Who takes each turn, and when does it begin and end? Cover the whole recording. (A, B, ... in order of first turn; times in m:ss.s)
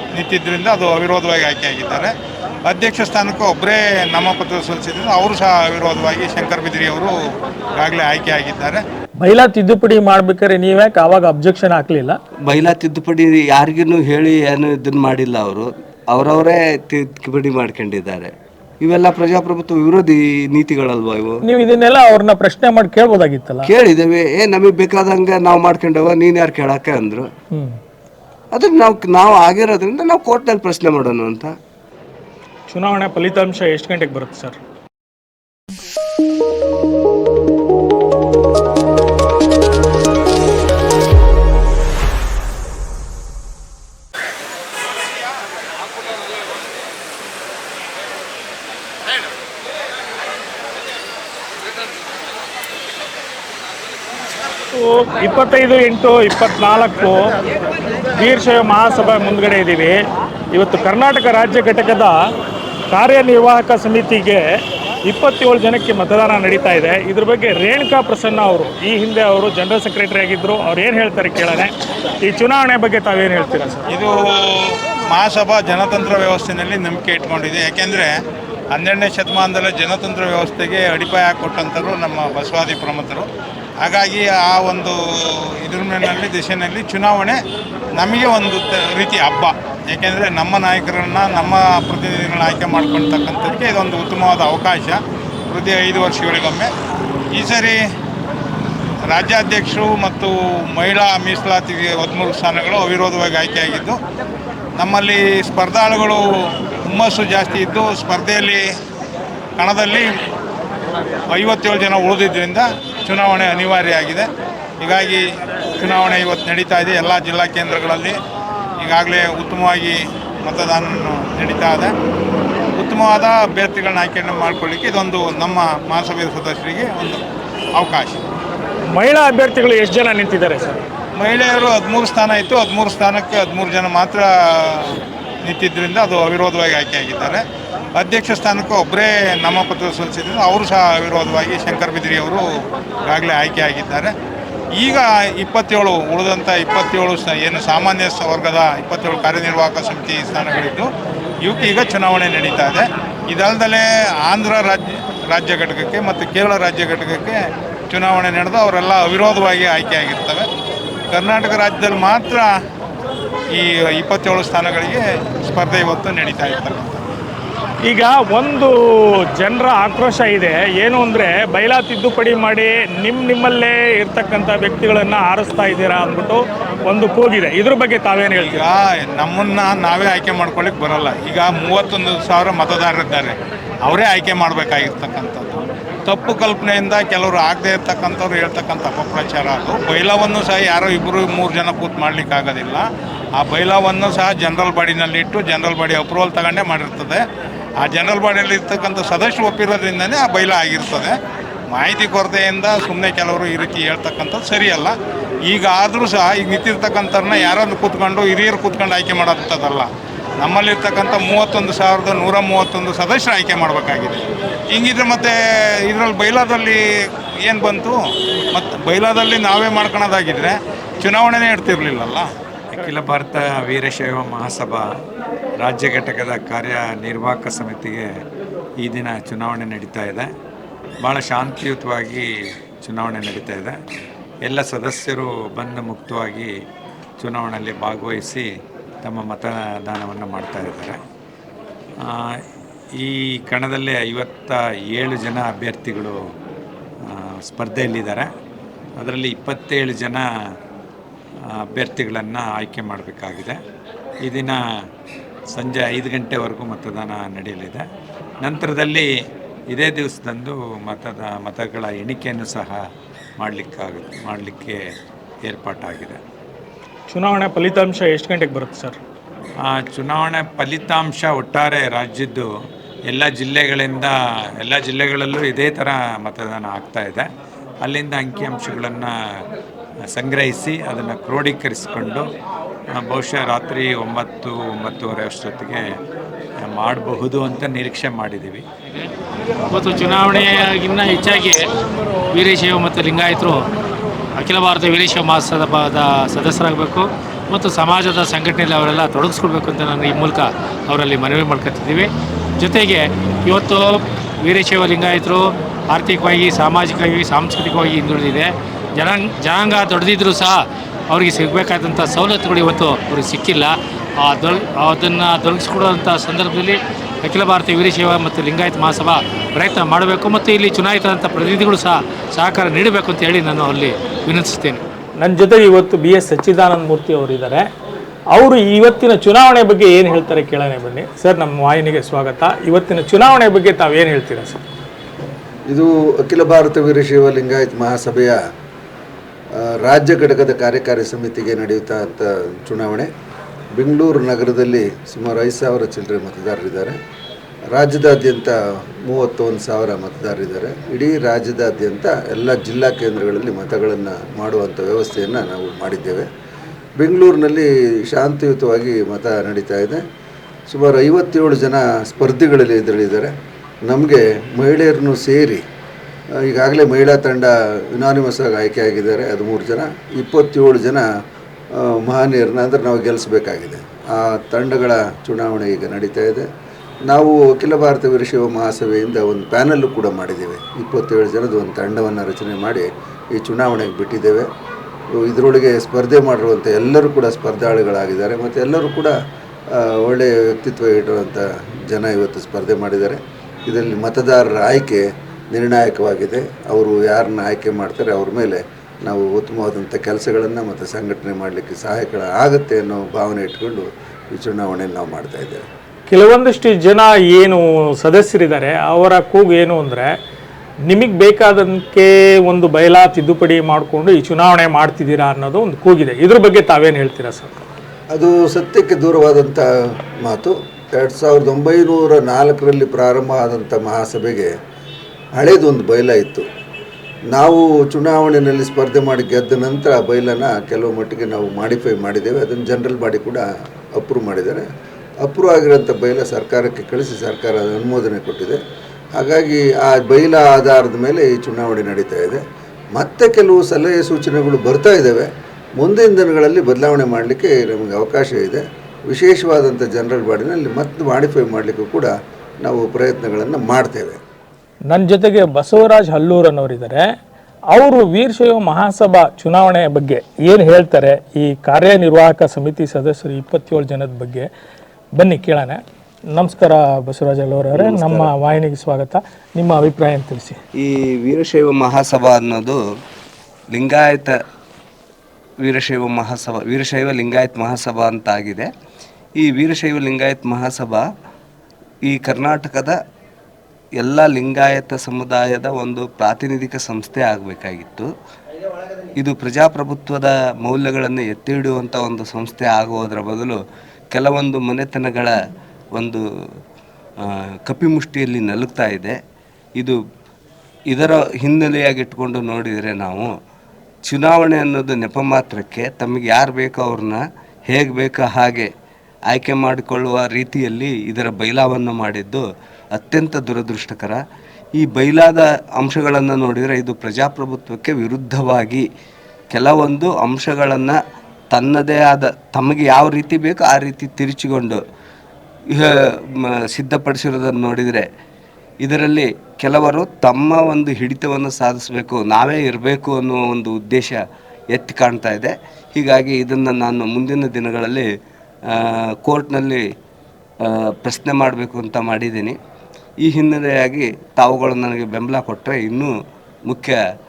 0:00.1-0:02.1 A
0:02.7-0:07.1 A
0:07.8-0:08.8 A
0:09.2-0:12.2 B
0:12.5-0:18.3 C
0:18.8-0:21.4 C
0:21.4-0:23.7 B
0:23.6-0:27.3 C
0:28.5-0:31.5 C
0:32.7-0:34.6 B
0:54.7-0:57.3 B
0:58.2-1:00.0 B
1:00.5-1:02.2 B
1:02.9-1:04.5 B
1:05.0-1:13.9 B
1:13.9-1:18.1 A
1:18.7-1:23.3 A
1:23.8-1:27.4 A
1:28.0-1:36.7 A
1:37.4-1:37.8 A
1:39.1-1:44.0 A
1:44.8-1:46.2 A
1:46.9-1:48.6 A
1:49.6-1:50.1 A
1:51.3-1:54.2 A
1:54.8-1:55.2 A
1:55.8-1:58.2 A
1:58.8-2:01.9 A
2:02.8-2:07.2 A
2:07.8-2:08.2 A
2:08.9-2:10.8 B
2:11.2-2:17.4 A
2:18.0-2:22.4 A
2:23.1-2:24.1 A
2:24.8-2:30.9 A
2:31.4-2:37.4 A
2:37.9-2:40.5 A
2:41.1-2:42.5 A
2:43.5-2:47.0 A
2:47.8-2:48.8 B
2:49.4-2:58.7 B
2:58.4-3:17.2 A
3:17.8-3:21.1 A
3:21.7-3:25.0 A
3:25.5-3:29.9 A
3:30.4-3:36.8 A
3:37.4-3:38.0 A
3:38.5-3:42.3 A
3:42.7-3:44.8 D
3:45.6-3:48.0 D
3:48.8-3:50.3 D
3:51.0-3:52.2 D
3:52.8-3:53.8 D
3:54.4-3:56.5 D
3:57.2-3:58.5 D
3:59.0-4:01.0 D
4:02.0-4:02.4 D
4:03.0-4:06.2 D
4:07.0-4:08.3 D
4:09.0-4:10.2 D
4:11.5-4:13.6 D
4:14.2-4:14.6 D
4:15.5-4:17.8 D
4:18.4-4:19.1 D
4:19.7-4:22.8 D
4:23.4-4:24.8 D
4:25.4-4:26.2 D
4:27.1-4:29.0 B
4:29.6-4:32.5 D
4:33.1-4:37.2 D
4:37.8-4:39.5 D
4:40.1-4:42.3 D
4:43.0-4:45.8 D
4:46.6-4:48.6 D
4:49.7-4:51.7 E
4:52.3-4:53.7 E
4:54.4-5:24.8 E
5:25.2-5:27.7 B
5:28.3-5:34.6 B
5:35.7-5:38.4 F
5:39.6-5:43.1 F
5:43.8-5:47.0 F
5:47.7-5:48.5 F
5:49.1-5:56.3 F
5:57.0-6:00.0 F
6:00.7-6:03.3 F
6:03.9-6:05.6 F
6:06.4-6:11.0 F
6:11.8-6:16.4 F
6:17.1-6:24.5 F
6:25.2-6:29.1 F
6:29.7-6:45.6 F
6:46.1-6:50.1 B
6:50.9-6:57.5 B
6:58.1-6:59.6 F
7:00.2-7:04.5 F
7:05.4-7:06.4 F
7:07.3-7:13.4 F
7:14.0-7:14.7 F
7:15.2-7:18.6 F
7:19.2-7:22.4 F
7:23.0-7:25.3 F
7:25.8-7:32.1 F
7:32.6-7:34.2 F
7:34.9-7:37.1 B
7:37.7-7:44.5 B
7:45.2-7:45.8 B
7:46.3-7:50.6 B
7:47.8-7:48.3 C
7:50.8-7:52.8 C
7:53.7-7:54.3 C
7:55.6-7:58.7 C
7:59.4-8:01.0 C
8:02.0-8:03.0 C
8:04.0-8:08.1 C
8:09.2-8:13.6 C
8:14.1-8:15.4 C
8:16.0-8:16.2 C
8:17.2-8:19.2 C
8:20.9-8:23.3 C
8:24.0-8:28.7 C
8:29.3-8:32.4 C
8:32.9-8:34.2 C
8:34.8-8:38.8 C
8:39.5-8:41.0 C
8:41.5-8:44.8 C
8:45.7-8:48.0 C
8:48.8-8:54.2 C
8:54.7-8:58.1 C
8:58.7-8:59.8 C
9:00.6-9:02.6 C
9:03.2-9:06.1 C
9:06.7-9:07.0 C